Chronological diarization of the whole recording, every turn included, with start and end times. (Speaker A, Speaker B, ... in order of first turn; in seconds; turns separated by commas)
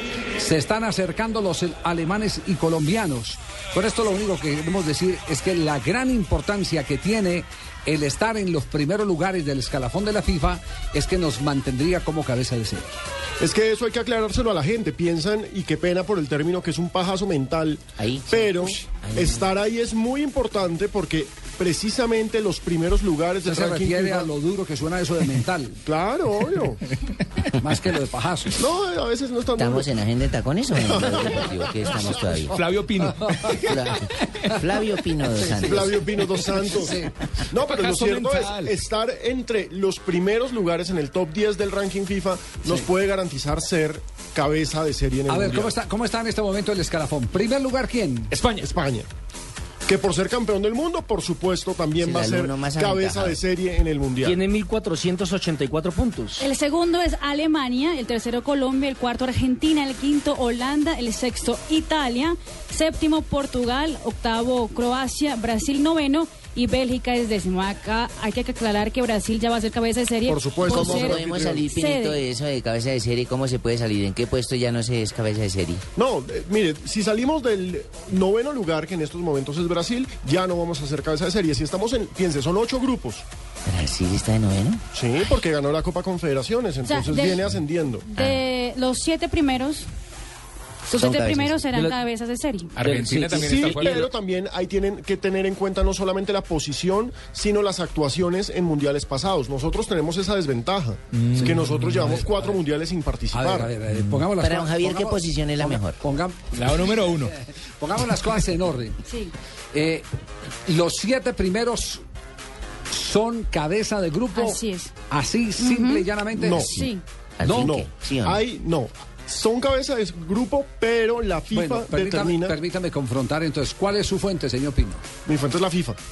Speaker A: 0.4-12.9, Speaker B: 13.4-24.3, Speaker C: 18.0-19.5, Speaker A: 23.4-25.8, Speaker B: 25.8-26.8, Speaker A: 27.6-28.6, Speaker B: 28.6-29.9, Speaker C: 29.5-32.5, Speaker B: 30.8-32.3, Speaker D: 32.5-33.9, Speaker A: 32.5-33.7, Speaker C: 33.6-36.0, Speaker A: 34.4-34.8, Speaker A: 35.3-37.1, Speaker B: 35.6-37.0, Speaker B: 37.5-45.7, Speaker D: 37.5-38.8, Speaker A: 45.3-48.3, Speaker D: 48.3-48.7, Speaker B: 48.6-49.1, Speaker B: 49.9-54.4, Speaker C: 52.0-53.4, Speaker E: 54.2-56.4, Speaker F: 56.4-72.2, Speaker B: 70.3-71.7, Speaker C: 70.6-75.8, Speaker B: 76.0-83.2, Speaker C: 83.7-84.8, Speaker B: 84.9-88.1, Speaker F: 86.8-87.4, Speaker F: 88.1-89.9, Speaker C: 90.9-91.5, Speaker F: 90.9-92.7, Speaker D: 92.8-94.1, Speaker E: 92.8-93.5, Speaker B: 93.3-103.7, Speaker D: 101.1-102.2, Speaker A: 101.3-102.6, Speaker A: 103.3-109.0, Speaker C: 104.2-106.0, Speaker D: 106.5-107.3, Speaker F: 109.0-109.3, Speaker A: 109.7-110.0, Speaker A: 110.7-112.0, Speaker A: 112.9-116.7, Speaker F: 114.3-114.9, Speaker F: 115.6-116.0, Speaker B: 116.3-116.7, Speaker C: 116.5-118.4, Speaker F: 116.6-117.0, Speaker A: 117.4-117.7, Speaker B: 117.5-122.5, Speaker A: 121.5-125.0, Speaker B: 125.2-126.0